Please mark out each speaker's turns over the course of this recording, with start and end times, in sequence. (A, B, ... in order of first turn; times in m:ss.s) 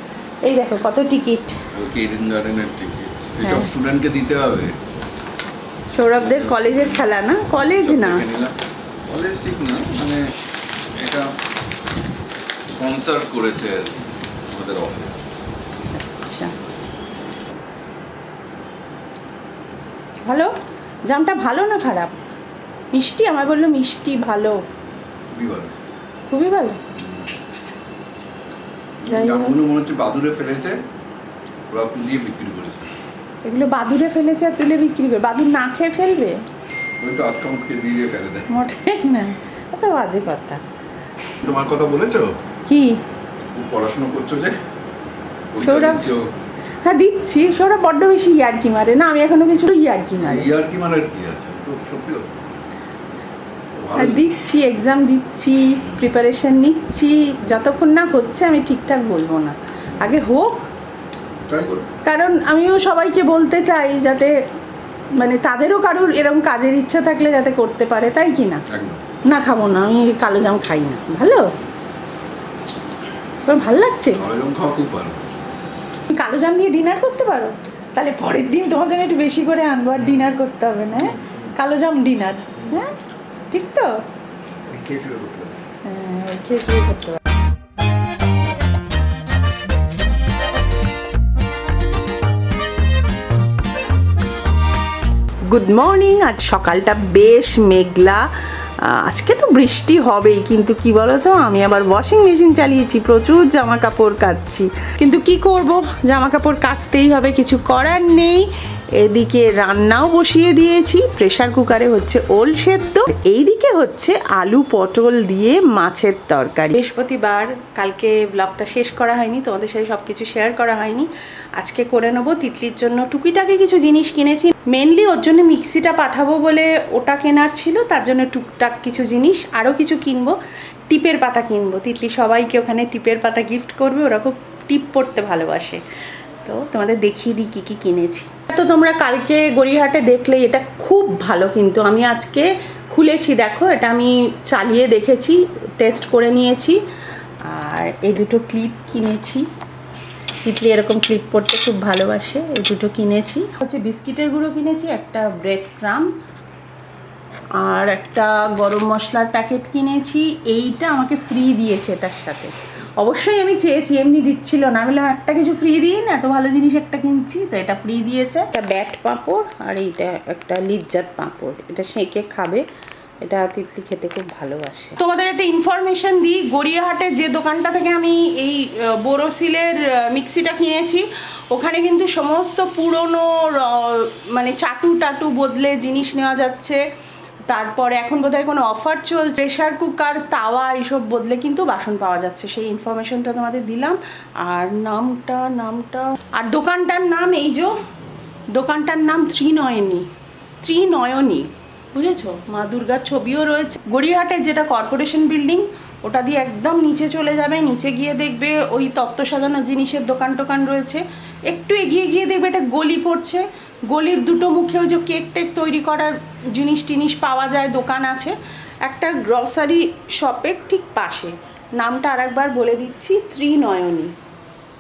0:00.4-0:01.6 A
0:01.7-0:04.7 B
0:03.4-0:03.7 A
0:05.9-0:08.2 A
0:06.2-0:07.0 B
0:07.8-0:08.5 B
0:09.1-0:10.2 B
0:11.0-0:11.3 B
0:12.7-0:13.9 B
0:14.5-0:15.3 B
0:15.9-0:16.5 A
0:20.2-0:20.5 A
0:21.1-0:22.2 A
0:22.9-0:24.6 A
0:25.3-0:25.7 B
0:26.3-0:26.8 A
0:27.0-0:27.5 B
0:29.0-0:30.8 B
0:29.1-0:29.6 A
0:31.7-0:32.9 B
0:33.4-0:36.4 A
0:37.0-0:38.5 B
0:38.5-0:40.6 A
0:41.4-0:42.3 B
0:42.6-0:43.0 A
0:43.5-0:44.6 B
0:45.5-0:46.3 B
0:45.6-0:46.1 A
0:46.8-0:50.5 A
0:50.2-0:52.4 B
0:53.7-0:54.3 B
0:53.9-1:00.7 A
0:55.8-0:56.0 B
1:01.5-1:01.9 B
1:02.0-1:04.4 A
1:05.2-1:08.6 A
1:08.7-1:09.0 B
1:09.2-1:11.5 A
1:13.4-1:14.2 A
1:14.1-1:15.2 B
1:16.1-1:22.9 A
1:20.0-1:20.3 B
1:21.0-1:21.5 B
1:23.5-1:24.0 A
1:24.7-1:25.6 B
1:25.8-1:27.2 A
1:35.5-1:38.3 A
1:38.8-2:10.4 A
2:10.9-2:15.8 A
2:16.4-2:26.8 A
2:27.4-2:29.4 A
2:30.4-2:36.1 A
2:37.6-2:52.6 A
2:53.2-3:06.8 A
3:07.5-3:17.8 A
3:18.5-3:20.1 A
3:20.6-3:44.1 A